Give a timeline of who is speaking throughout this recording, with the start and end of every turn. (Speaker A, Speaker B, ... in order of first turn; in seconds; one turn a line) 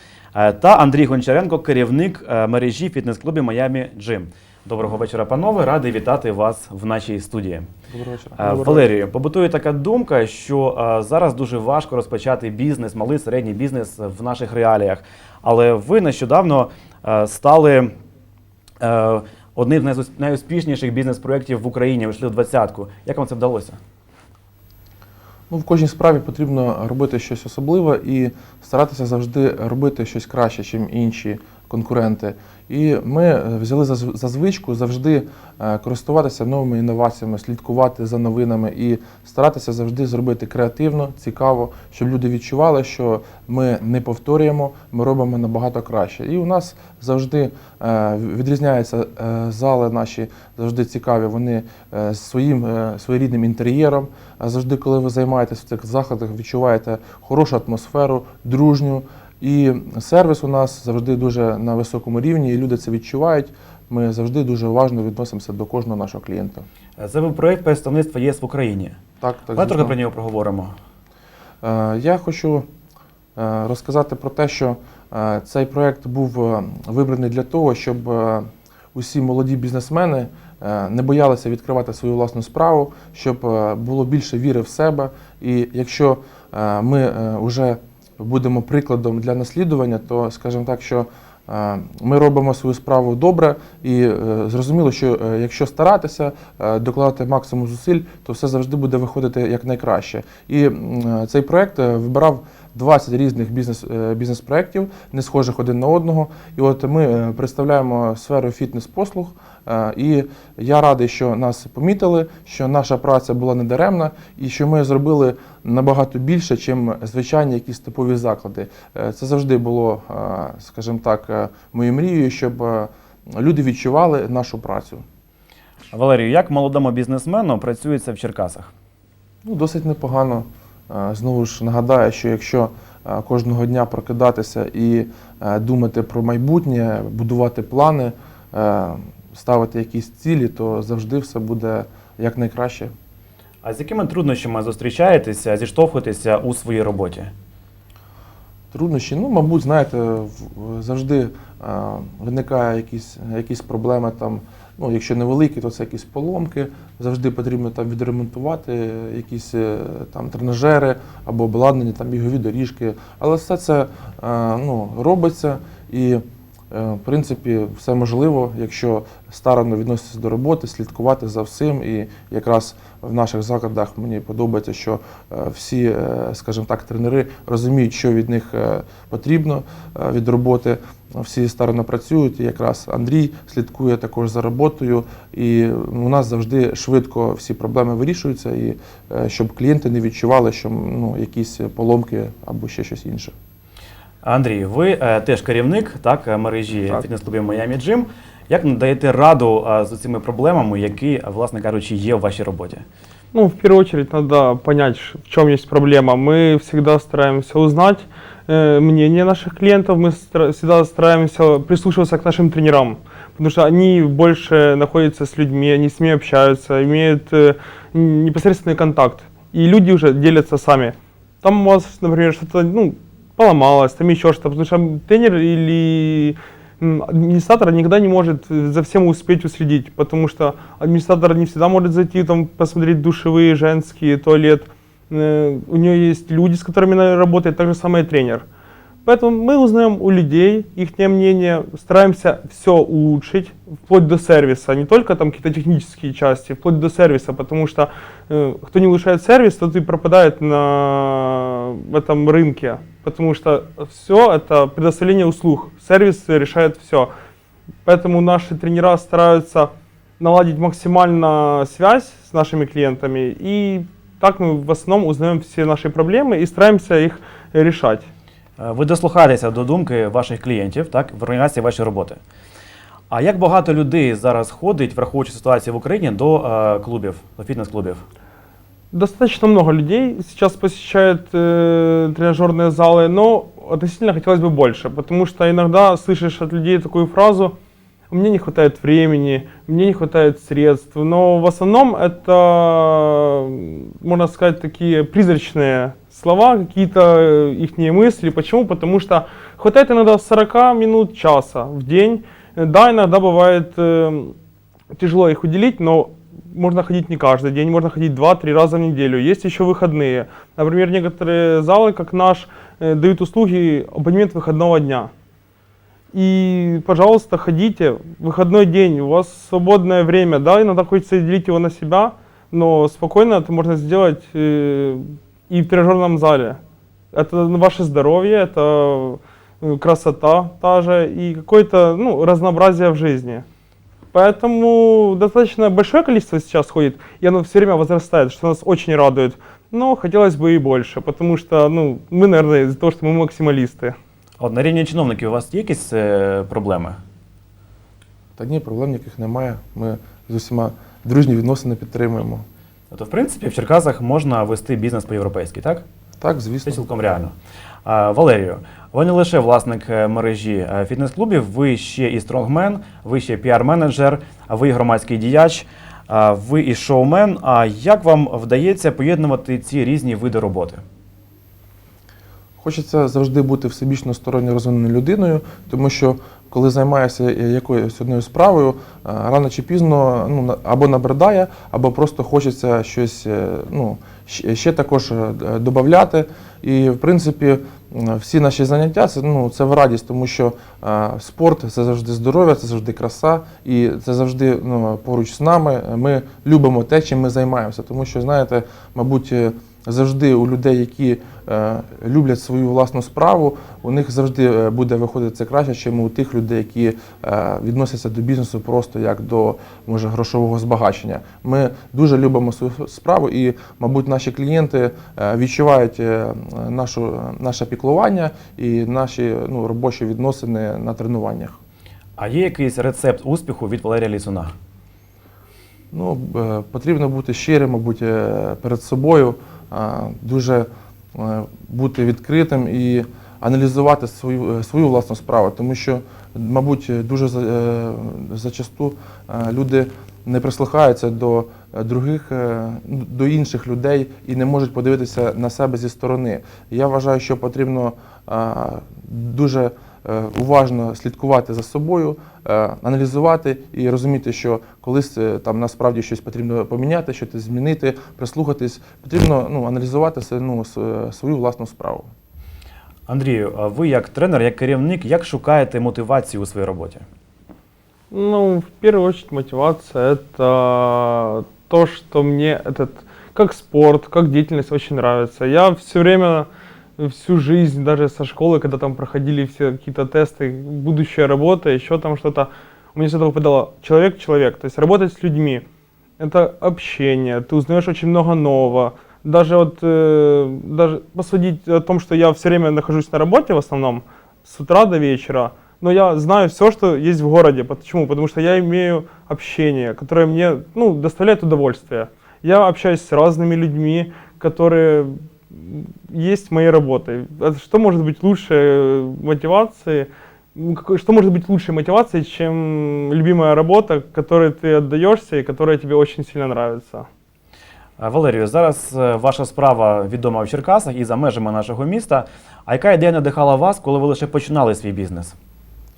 Speaker A: 0.3-7.7
Speaker B: 7.9-8.9
Speaker A: 8.4-17.9
Speaker A: 18.8-23.8
Speaker B: 25.5-66.6
Speaker A: 67.0-69.0
Speaker B: 69.2-70.0
Speaker A: 69.5-70.7
Speaker B: 71.6-72.7
Speaker B: 73.3-125.0
Speaker A: 125.9-128.7
Speaker B: 129.4-142.9
Speaker A: 143.6-147.3
Speaker B: 148.7-193.3
Speaker A: 194.2-202.8
Speaker C: 203.3-238.4
Speaker C: 239.0-257.1
Speaker C: 257.8-268.1
Speaker A: 268.6-272.2
Speaker A: 273.1-278.0
Speaker C: 278.9-287.5
Speaker C: 288.1-304.3
Speaker C: 304.9-315.1
Speaker C: 316.1-326.6
Speaker C: 327.1-333.4
Speaker C: 334.1-343.9
Speaker A: 344.4-347.0
Speaker B: 348.4-352.4
Speaker A: 352.9-355.8
Speaker B: 356.2-356.8
Speaker A: 356.6-357.3
Speaker A: 357.8-370.8
Speaker B: 372.6-421.6
Speaker A: 422.2-424.5
Speaker B: 425.9-462.1
Speaker A: 463.1-467.0
Speaker C: 468.1-485.6
Speaker C: 486.2-517.1
Speaker A: 518.0-525.4